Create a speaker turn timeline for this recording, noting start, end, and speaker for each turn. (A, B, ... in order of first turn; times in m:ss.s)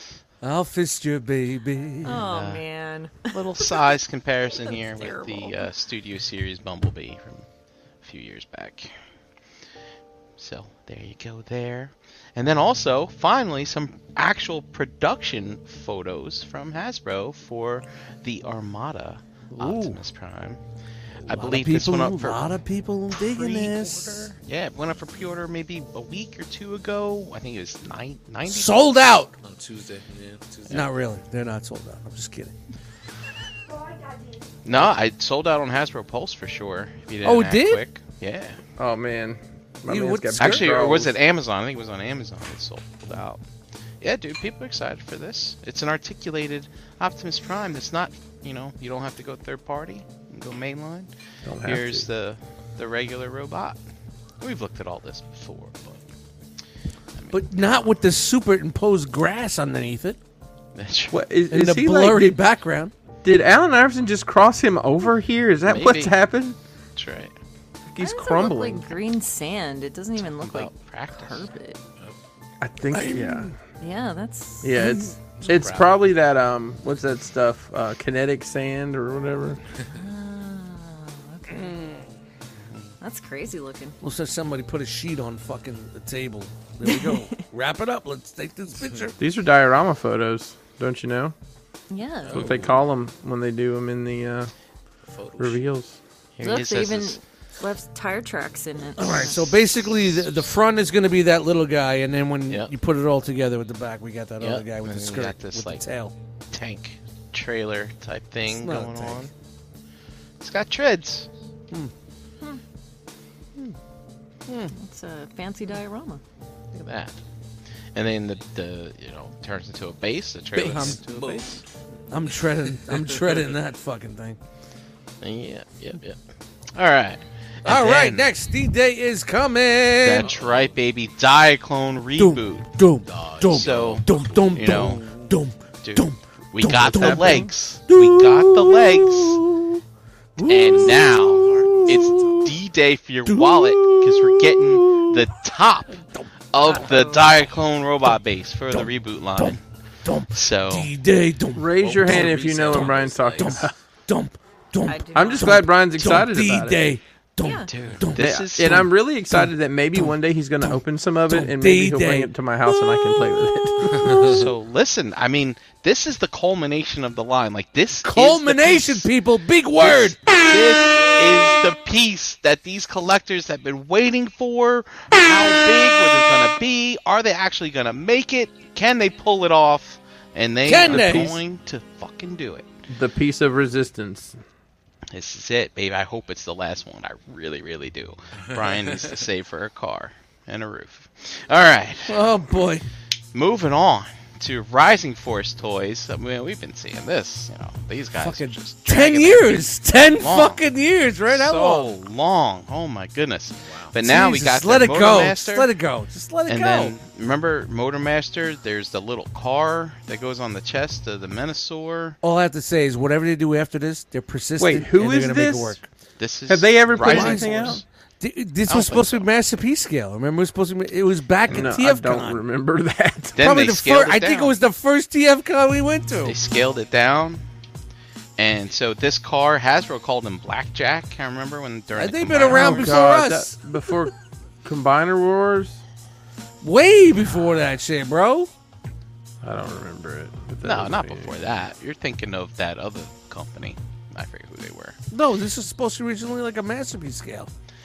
0:00.4-0:02.2 A
0:02.0-0:03.3 B
0:02.1-0:02.6 C
0:03.3-0:07.5 C
0:04.7-0:05.7 B
0:08.0-0:08.9 C
0:10.4-0:20.6 C
0:19.5-0:20.0 A
0:21.2-0:22.5 C
0:21.3-0:24.4 A
0:23.1-0:28.9 C
0:28.5-0:29.3 A
0:29.4-0:30.9 D
0:30.7-0:32.5 A
0:34.6-0:38.6 C
0:37.2-0:37.8 A
0:38.8-0:41.1 E
0:39.9-0:40.7 A
0:40.4-0:43.4 C
0:44.0-0:51.1 C
0:51.4-0:52.1 E
0:51.6-0:53.8 C
0:54.4-0:56.0 C
0:57.2-0:57.7 C
0:57.3-1:00.2 A
1:00.8-1:01.2 C
1:01.1-1:02.4 E
1:01.5-1:02.9 A
1:03.2-1:06.6 E
1:05.7-1:06.2 C
1:07.0-1:07.3 C
1:07.9-1:09.0 E
1:08.0-1:11.8 B
1:10.2-1:11.5 C
1:12.6-1:13.5 E
1:12.9-1:13.5 A
1:13.8-1:15.1 B
1:14.6-1:19.6 E
1:15.5-1:15.9 C
1:19.9-1:21.8 B
1:21.5-1:22.1 A
1:23.0-1:24.0 B
1:24.0-1:29.2 A
1:29.2-1:31.4 E
1:31.9-1:32.5 B
1:32.2-1:32.8 D
1:32.3-1:34.5 E
1:35.1-1:35.6 D
1:35.4-1:36.0 E
1:36.4-1:37.2 C
1:36.4-1:39.4 B
1:39.0-1:46.1 A
1:44.4-1:45.8 C
1:46.5-1:49.3 C
1:48.5-1:49.3 A
1:50.4-1:51.3 C
1:54.5-1:54.7 A
1:54.7-1:56.2 B
1:56.7-1:57.2 C
1:58.0-2:01.6 C
2:00.6-2:01.5 A
2:00.8-2:01.4 D
2:02.1-2:04.4 A
2:05.2-2:06.2 C
2:06.8-2:08.3 C
2:07.6-2:10.3 A
2:10.0-2:12.7 C
2:10.2-2:10.8 D
2:12.2-2:19.8 A
2:13.1-2:14.5 D
2:13.5-2:15.1 C
2:15.8-2:19.4 C
2:16.9-2:17.5 E
2:20.4-2:22.6 A
2:20.5-2:26.0 C
2:23.3-2:25.2 A
2:26.0-2:26.3 A
2:26.5-2:29.6 C
2:26.6-2:27.3 B
2:28.7-2:42.3 A
2:30.3-2:30.9 C
2:31.5-2:33.7 E
2:31.9-2:33.6 D
2:34.9-2:35.6 B
2:35.2-2:36.9 E
2:37.4-2:37.7 B
2:37.7-2:38.9 C
2:38.2-2:44.4 E
2:44.2-2:49.1 C
2:48.0-2:50.2 A
2:49.8-3:02.7 C
3:00.6-3:01.4 A
3:00.9-3:01.2 E
3:02.9-3:04.4 E
3:05.1-3:12.2 C
3:08.5-3:09.0 D
3:12.1-3:12.9 A
3:13.3-3:20.6 C
3:18.2-3:21.9 A
3:21.3-3:25.7 C
3:23.6-3:24.0 D
3:24.0-3:27.0 A
3:26.5-3:32.2 C
3:32.2-3:35.8 A
3:34.6-3:35.8 E
3:36.2-3:37.8 C
3:36.5-3:37.8 E
3:37.0-3:42.4 A
3:38.7-3:39.3 C
3:41.5-3:43.4 E
3:43.4-3:44.6 C
3:43.4-3:46.4 A
3:46.2-3:47.4 C
3:48.4-3:53.1 C
3:52.0-3:53.6 A
3:52.5-3:54.1 E
3:54.6-3:55.8 E
3:56.6-3:58.5 A
3:59.4-4:01.5 E
4:00.6-4:05.0 C
4:05.1-4:07.5 A